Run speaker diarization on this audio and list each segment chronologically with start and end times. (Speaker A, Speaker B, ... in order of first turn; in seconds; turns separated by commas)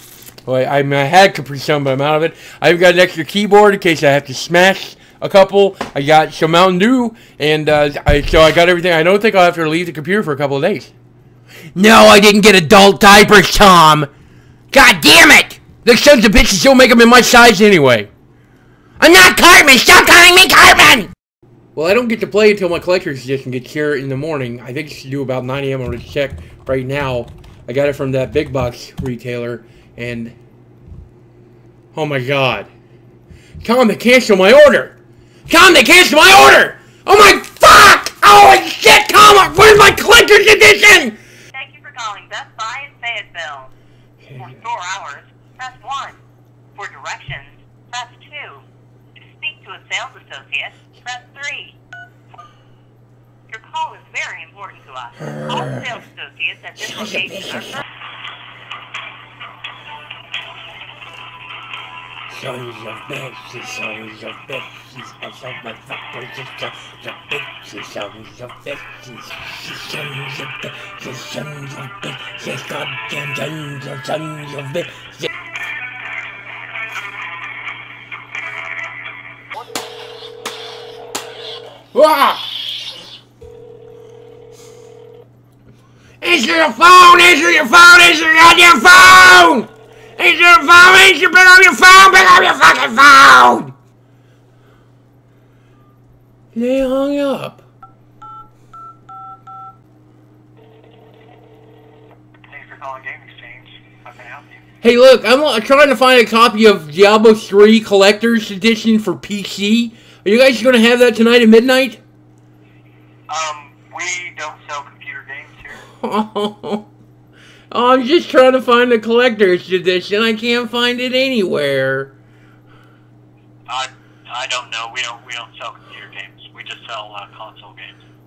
Speaker A: 0.4-10.9, Speaker A: 11.7-14.1, Speaker A: 14.7-18.1, Speaker A: 19.0-21.1, Speaker A: 21.7-30.4, Speaker A: 31.9-32.7, Speaker A: 33.6-34.9, Speaker A: 35.5-41.2, Speaker B: 41.5-43.7, Speaker A: 44.2-44.5, Speaker B: 44.4-46.2, Speaker B: 46.8-48.6, Speaker B: 49.2-51.8, Speaker B: 53.5-57.8, Speaker A: 55.2-56.0, Speaker A: 56.8-57.8, Speaker A: 62.3-75.3, Speaker A: 81.9-82.4, Speaker A: 86.2-93.7, Speaker A: 96.5-97.6, Speaker C: 102.5-104.6, Speaker A: 104.8-112.0, Speaker C: 113.3-115.8, Speaker A: 116.0-116.9, Speaker A: 117.7-122.1, Speaker C: 123.7-128.0